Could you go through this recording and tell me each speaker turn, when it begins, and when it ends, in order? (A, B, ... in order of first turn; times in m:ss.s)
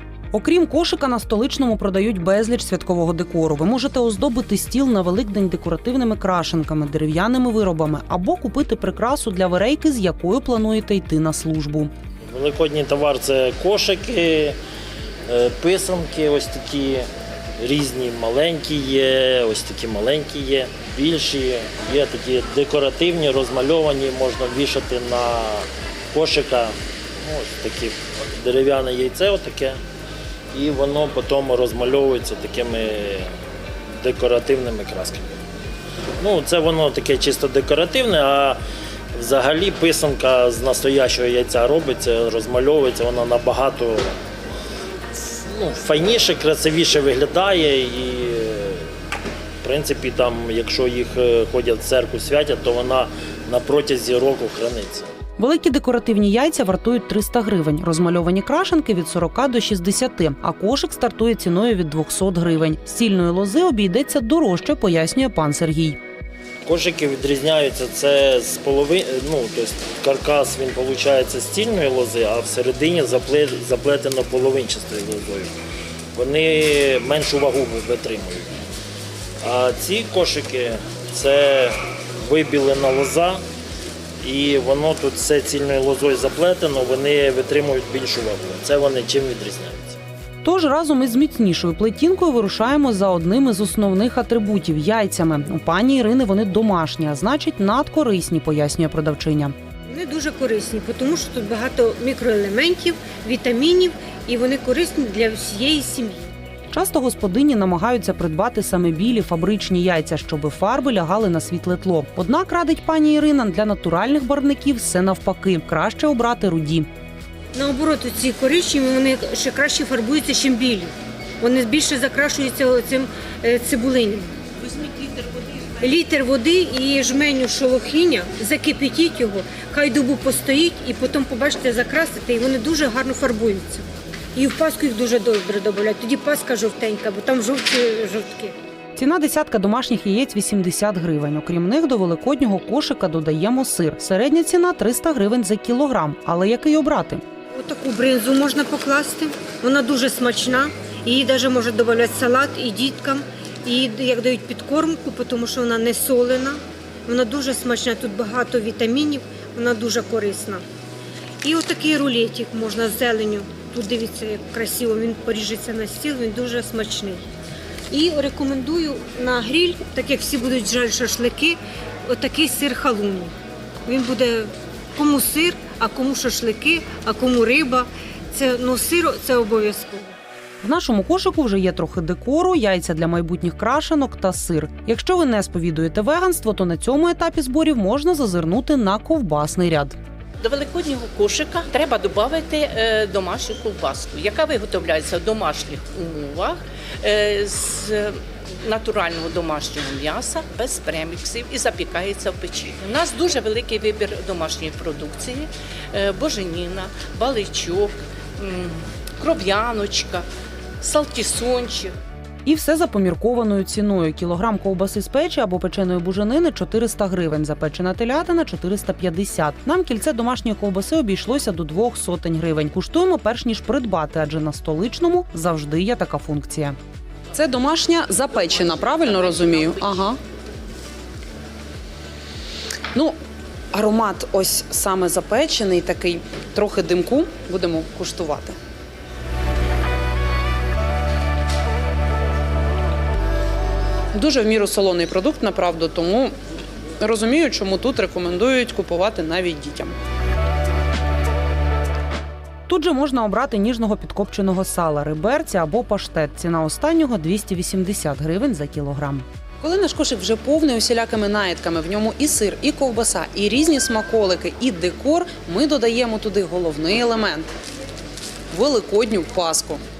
0:00.3-0:11.9 A
0:12.3-0:14.6 B
0:15.3-0:17.0 B
0:17.6-0:29.8 B
0:30.5-0:33.3 B
0:34.0-0:35.4 B
0:36.2-0:38.6 B
0:39.1-0:44.1 B
0:45.1-0:48.9 B
0:49.6-0:55.1 B
0:55.4-1:06.0 A
1:06.6-1:15.5 B
1:16.1-1:18.6 B
1:19.4-1:23.4 B
1:24.2-1:30.0 B
1:30.4-1:39.6 A
1:39.9-1:46.3 C
1:46.7-1:56.9 A
1:57.5-2:04.3 C
2:05.8-2:18.6 C
2:19.0-2:27.2 A
2:27.5-2:40.6 C
2:41.4-2:47.2 C
2:47.9-2:53.3 C
2:53.9-3:00.2 C
3:00.6-3:10.0 A
3:10.4-3:30.3 D
3:30.8-3:31.9 D
3:32.5-3:46.8 A
3:47.3-3:50.2 A
3:48.1-3:50.1 D
3:53.7-3:58.6 A
4:04.1-4:06.3 A
4:07.0-4:09.9 A
4:12.7-4:27.5 A
4:28.5-4:29.8 A